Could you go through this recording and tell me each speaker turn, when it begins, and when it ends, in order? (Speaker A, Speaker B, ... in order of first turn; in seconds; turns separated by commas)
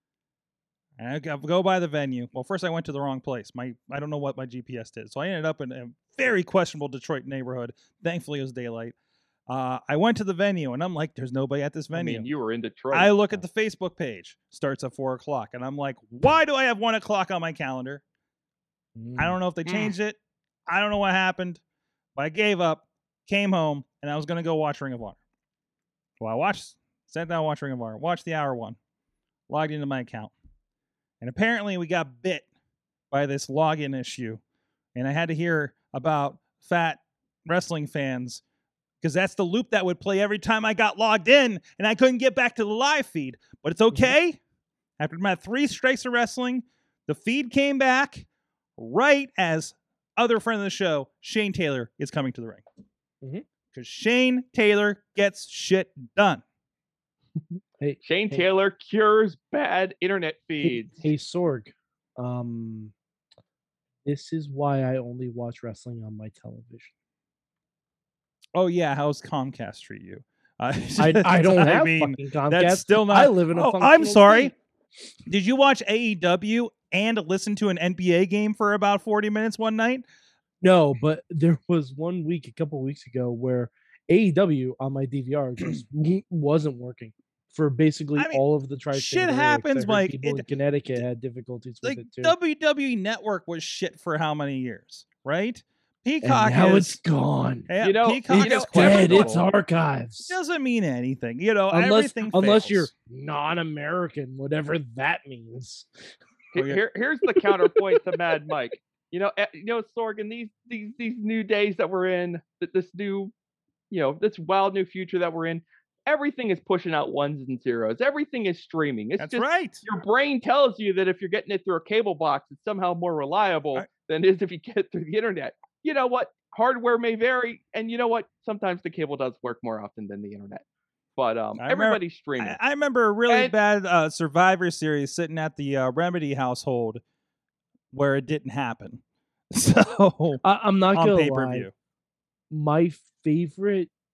Speaker A: 1.0-8.9, Speaker A: 9.5-12.3, Speaker B: 11.9-13.2, Speaker A: 12.9-18.0, Speaker C: 18.9-19.4, Speaker A: 19.2-21.6, Speaker B: 19.6-19.9, Speaker A: 22.1-25.2, Speaker A: 26.2-28.8, Speaker A: 29.5-30.3, Speaker A: 31.2-32.5, Speaker A: 33.1-34.4, Speaker A: 34.9-38.4, Speaker A: 39.0-44.4, Speaker A: 45.0-48.2, Speaker A: 48.8-52.6, Speaker A: 53.7-56.4, Speaker C: 57.8-58.4, Speaker B: 58.0-61.0, Speaker C: 60.6-62.9, Speaker C: 64.0-66.9, Speaker A: 68.5-74.5, Speaker C: 71.0-74.5, Speaker A: 75.3-80.0, Speaker C: 80.6-92.3, Speaker A: 88.2-88.4, Speaker A: 88.9-90.5, Speaker A: 91.8-97.0, Speaker C: 96.2-97.7, Speaker A: 97.7-99.4, Speaker B: 97.8-99.4, Speaker C: 98.3-100.4, Speaker A: 100.3-102.9, Speaker C: 101.7-105.9, Speaker B: 106.5-113.3, Speaker C: 107.4-108.0, Speaker B: 113.9-130.6, Speaker A: 119.2-119.8, Speaker B: 131.2-132.6, Speaker A: 131.6-137.0, Speaker B: 133.3-133.5, Speaker A: 137.9-141.7, Speaker C: 140.4-141.7, Speaker C: 142.5-143.9